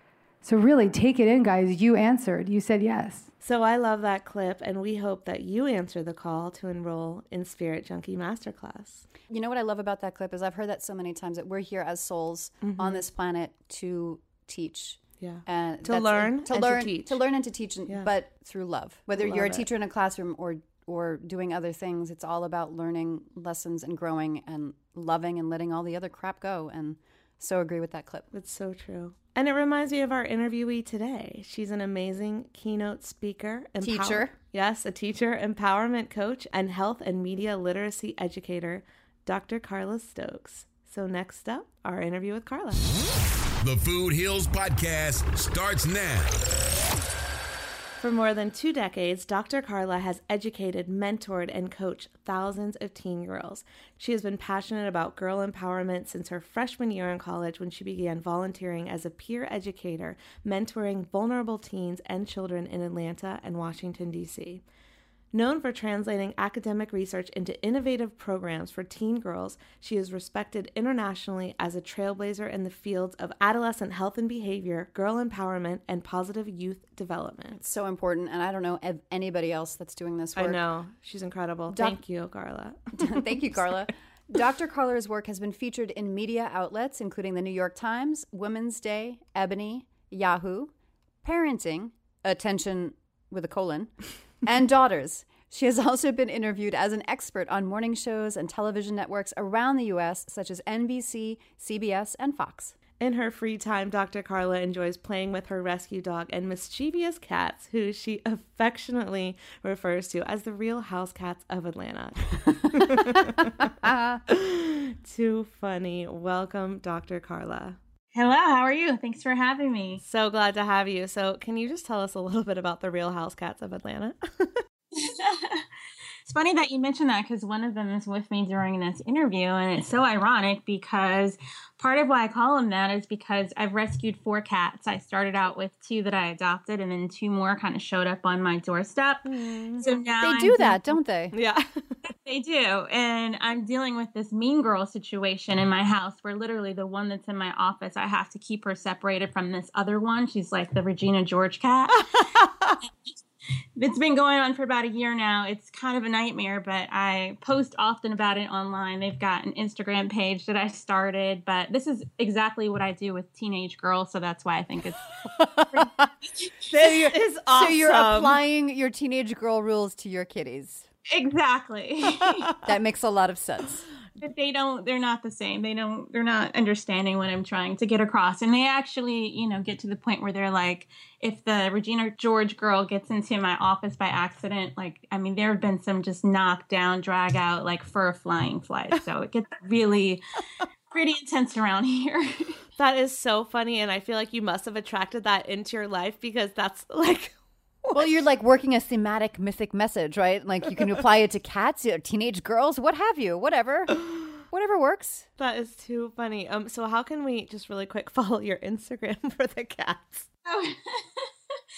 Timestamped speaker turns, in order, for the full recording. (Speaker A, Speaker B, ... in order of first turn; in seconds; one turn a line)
Speaker A: 0.4-3.3
Speaker B: 3.4-9.1
Speaker C: 9.3-28.3
Speaker B: 12.6-13.0
Speaker B: 15.2-17.2
Speaker B: 19.2-19.6
Speaker B: 28.3-42.9
Speaker C: 33.8-34.3
Speaker D: 43.6-46.4
Speaker B: 48.0-64.6
Speaker B: 65.3-77.6
Speaker C: 77.6-80.6
Speaker B: 80.4-83.7
Speaker C: 81.7-82.0
Speaker C: 83.0-90.7
Speaker C: 91.2-102.8
Speaker B: 103.0-113.7
Speaker C: 113.8-114.2
Speaker B: 114.3-117.8
Speaker E: 118.1-120.0
Speaker B: 120.0-124.6
Speaker E: 125.0-125.7
Speaker E: 126.3-139.2
Speaker B: 139.2-139.9
Speaker E: 139.8-141.0
Speaker C: 140.2-141.3
Speaker B: 141.3-142.0
Speaker E: 142.1-152.3
Speaker B: 152.1-152.8
Speaker E: 152.8-153.2
Speaker E: 153.8-165.1
Speaker C: 165.2-166.1
Speaker E: 165.7-166.5
Speaker B: 166.7-168.4
Speaker C: 167.5-170.9
Speaker E: 171.1-172.5
Speaker C: 172.7-173.8
Speaker E: 174.2-190.2
Speaker E: 190.9-192.6
Speaker B: 192.8-198.0
Speaker C: 197.9-205.3
Speaker B: 205.4-210.3
Speaker E: 210.5-211.3